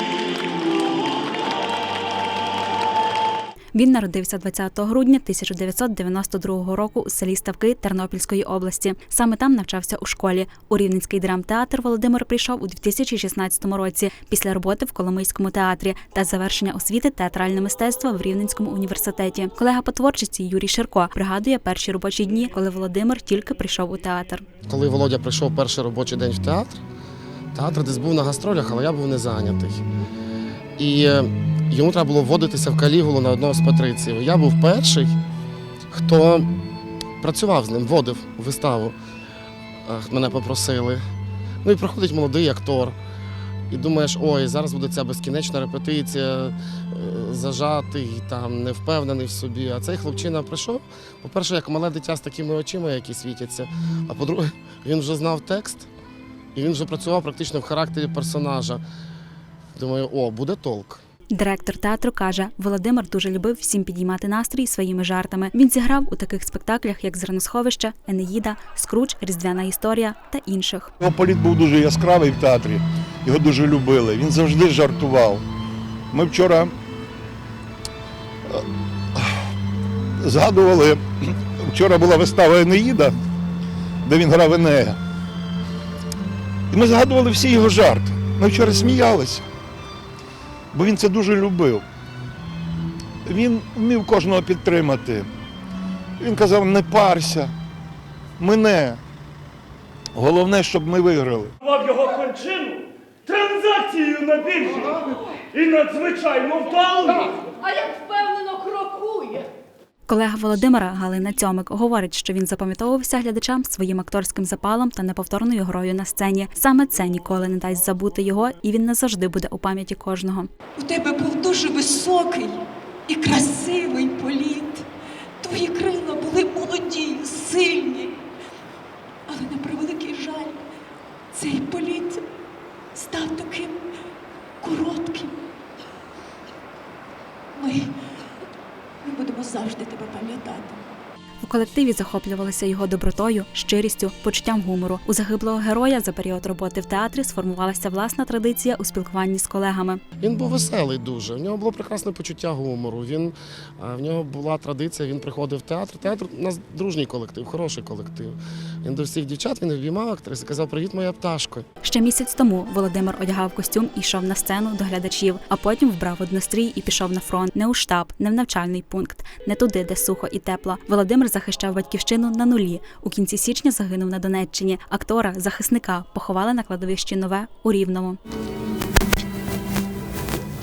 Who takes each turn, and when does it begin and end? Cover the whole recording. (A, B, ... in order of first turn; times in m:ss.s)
0:03.7-0:24.4 A
0:24.7-0:26.8 B
0:27.5-0:29.8 B
0:30.8-0:35.1 B
0:35.9-0:36.5 B
0:37.2-0:39.0 B
0:39.9-0:41.0 B
0:41.6-0:43.0 B
0:43.7-0:55.9 B
0:56.5-0:58.8 B
0:59.8-1:01.0 B
1:01.3-1:10.9 A
1:11.1-1:12.8 C
1:12.1-1:12.6 D
1:13.4-1:15.4 C
1:16.1-1:16.7 C
1:20.3-1:20.7 C
1:20.6-1:21.0 D
1:21.7-1:22.9 C
1:22.3-1:23.0 D
1:24.0-1:25.0 C
1:26.7-1:29.4 C
1:27.5-1:29.3 D
1:30.7-1:31.8 C
1:33.2-1:35.2 C
1:36.2-1:37.1 C
1:36.9-1:37.4 D
1:38.4-1:38.9 C
1:40.2-1:41.5 C
1:41.7-1:42.6 D
1:43.3-1:44.9 D
1:45.7-1:47.1 D
1:46.7-1:47.3 E
1:47.9-1:49.4 E
1:50.1-2:00.5 A
2:00.8-2:04.9 E
2:05.4-2:08.2 E
2:09.3-2:10.6 E
2:11.3-2:12.2 E
2:12.9-2:13.8 E
2:14.6-2:15.4 E
2:17.6-2:17.9 E
2:19.0-2:20.8 E
2:21.4-2:30.0 A
2:30.2-2:41.6 B
2:41.8-2:58.2 A